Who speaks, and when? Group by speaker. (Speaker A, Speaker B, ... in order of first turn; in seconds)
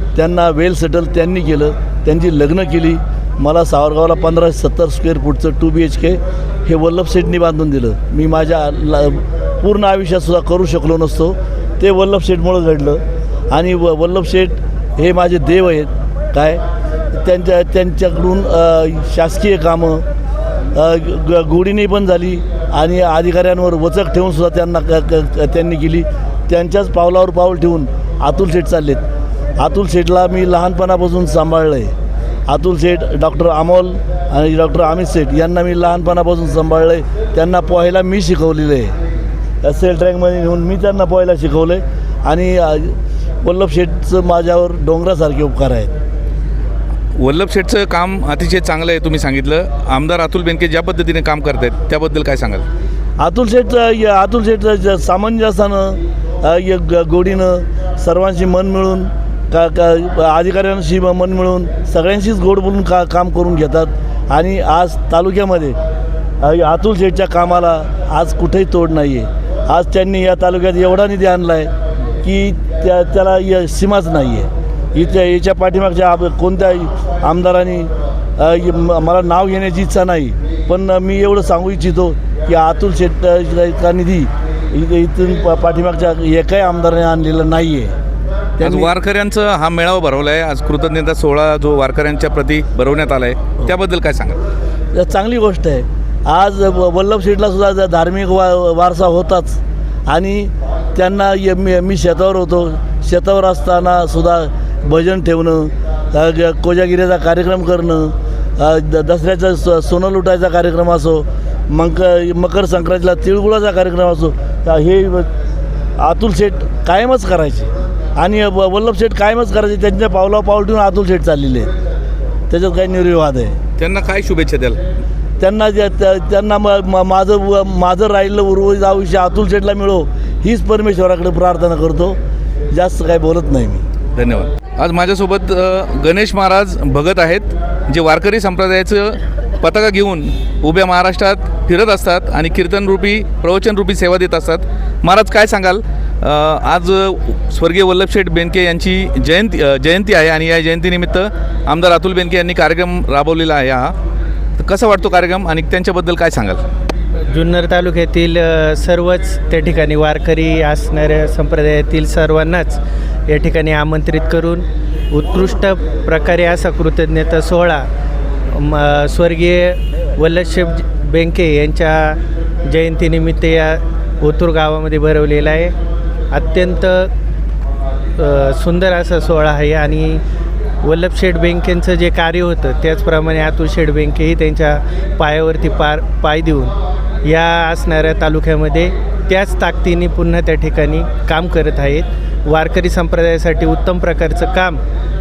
Speaker A: 0.1-16.6, 17.1-20.0, 20.7-29.0, 29.6-31.9, 32.5-38.9, 39.6-45.9, 53.2-65.8, 66.4-71.7, 72.2-87.9, 88.6-88.9, 94.9-115.3, 116.0-121.7, 122.5-123.6, 125.4-132.2, 132.7-133.8
Speaker B: 47.1-52.6, 88.6-94.4, 123.8-124.8, 134.1-153.9, 154.6-156.6
Speaker C: 157.3-167.8, 168.6-175.7, 176.3-177.1, 178.2-180.2, 180.8-194.8